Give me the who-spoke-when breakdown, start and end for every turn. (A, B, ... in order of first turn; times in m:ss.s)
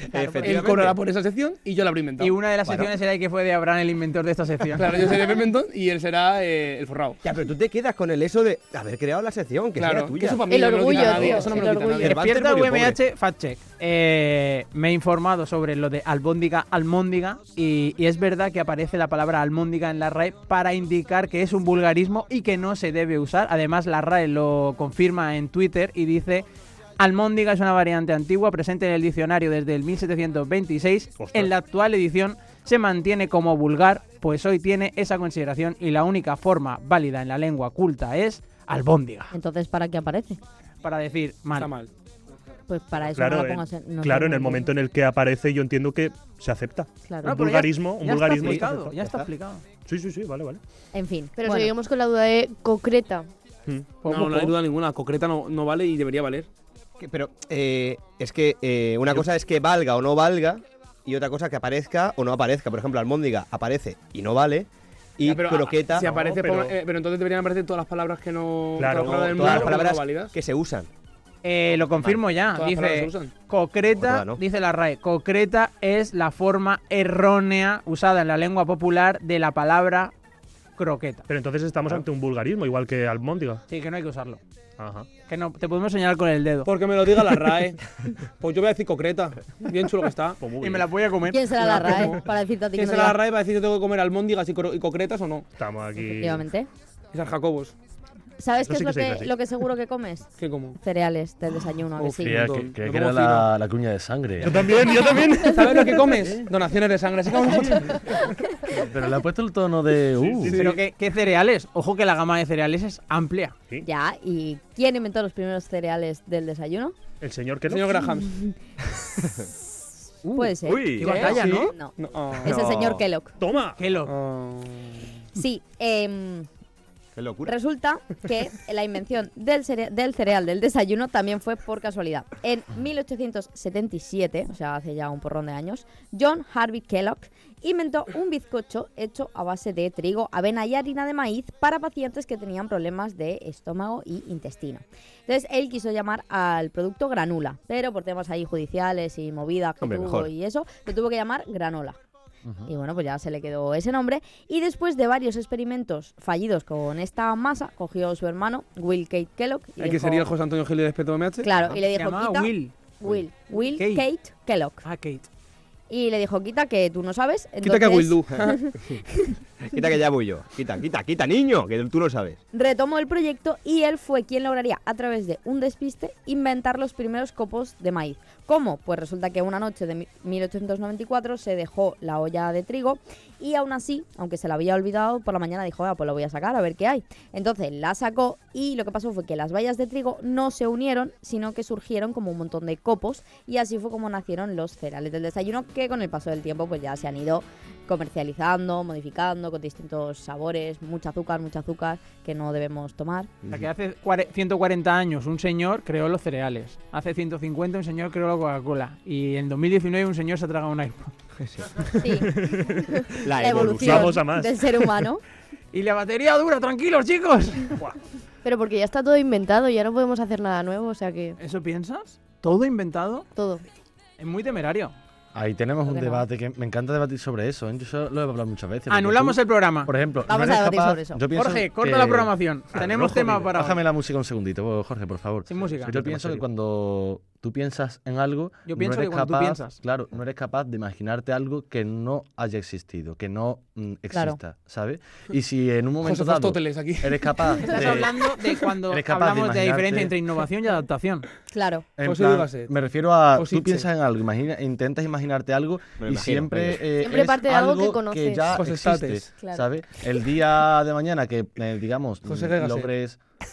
0:00.1-0:01.0 A
0:00.4-0:02.4 B
0:02.2-0:05.1 C
0:02.6-0:02.9 A
0:04.8-0:07.2 B
0:07.2-0:10.5 A
0:09.8-0:12.2 B
0:10.5-0:12.1 D
0:11.0-0:11.4 A
0:12.0-0:26.4 C
0:12.0-0:13.0 A
0:27.0-0:39.3 C
0:31.2-0:31.5 E
0:39.3-0:40.4 F
0:40.8-0:41.7 C
0:41.5-0:41.9 B
0:42.7-0:44.7 F
0:43.1-0:48.9 E
0:47.1-0:47.4 F
0:47.2-0:49.6 C
0:49.8-0:50.6 E
0:50.9-0:51.7 F
0:51.4-0:53.3 D
0:54.0-0:54.5 C
0:54.0-0:56.5 B
0:57.0-1:06.1 A
1:05.2-1:10.3 B
1:05.9-1:06.7 E
1:08.8-1:09.8 E
1:09.1-1:10.9 A
1:11.4-1:20.1 C
1:12.4-1:13.3 B
1:13.9-1:14.4 A
1:20.8-1:21.2 C
1:21.3-1:23.6 E
1:23.7-1:24.4 C
1:24.8-1:25.1 E
1:25.3-1:26.7 C
1:26.6-1:27.8 B
1:28.4-1:30.4 B
1:30.4-1:30.9 E
1:30.6-1:32.2 C
1:31.3-1:33.2 F
1:31.6-1:32.2 B
1:32.7-1:35.5 B
1:35.6-1:36.5 E
1:36.0-1:36.7 F
1:37.1-1:37.8 B
1:38.4-1:42.5 F
1:38.6-1:39.3 E
1:40.4-1:40.8 B
1:42.0-1:43.5 B
1:42.2-1:44.7 G
1:44.4-1:45.9 E
1:44.7-1:48.3 B
1:48.7-1:50.6 G
1:50.4-1:50.8 B
1:50.5-1:53.5 C
1:53.8-1:57.0 F
1:57.2-1:58.0 E
1:57.7-1:58.3 B
1:58.2-1:58.5 F
2:00.2-2:01.7 C
2:00.2-2:03.3 F
2:00.6-2:01.4 A
2:01.2-2:02.6 B
2:02.4-2:03.1 A
2:03.4-2:03.8 E
2:03.8-2:04.1 C
2:04.1-2:05.0 B
2:05.3-2:06.5 F
2:07.1-2:07.5 A
2:07.4-2:32.0 F
2:29.8-2:30.3 A
2:32.4-2:32.7 G
2:32.7-2:40.3 F
2:39.8-2:41.5 B
2:41.4-2:44.8 F
2:41.9-2:42.7 C
2:43.5-2:44.0 C
2:44.8-2:45.3 C
2:45.9-2:49.3 F
2:47.6-2:48.6 B
2:49.6-2:52.4 A
2:52.5-3:23.3 F
3:23.5-3:31.1 C
3:31.4-3:31.7 A
3:32.0-3:32.3 F
3:32.2-3:34.9 E
3:33.0-3:35.2 F
3:33.2-3:34.2 A
3:35.7-3:37.8 C
3:38.4-3:41.4 D
3:41.4-3:43.3 C
3:43.3-3:43.6 D
3:44.2-3:44.9 C
3:45.3-3:52.4 G
3:45.8-3:46.2 F
3:48.9-3:49.9 C
3:50.3-3:51.2 F
3:51.3-3:53.8 C
3:52.7-3:53.4 E
3:53.4-4:08.2 G
3:55.5-3:56.0 C
3:55.8-3:56.4 E
3:58.7-3:59.8 C
4:04.1-4:04.4 F
4:06.0-4:08.0 B
4:07.6-4:11.3 C
4:08.9-4:10.1 G
4:11.5-4:11.8 F
4:12.0-4:23.2 G
4:12.0-4:12.7 B
4:13.4-4:13.9 B
4:16.0-4:16.8 A
4:17.0-4:18.5 D
4:18.5-4:19.2 B
4:19.4-4:19.7 F
4:22.2-4:22.9 B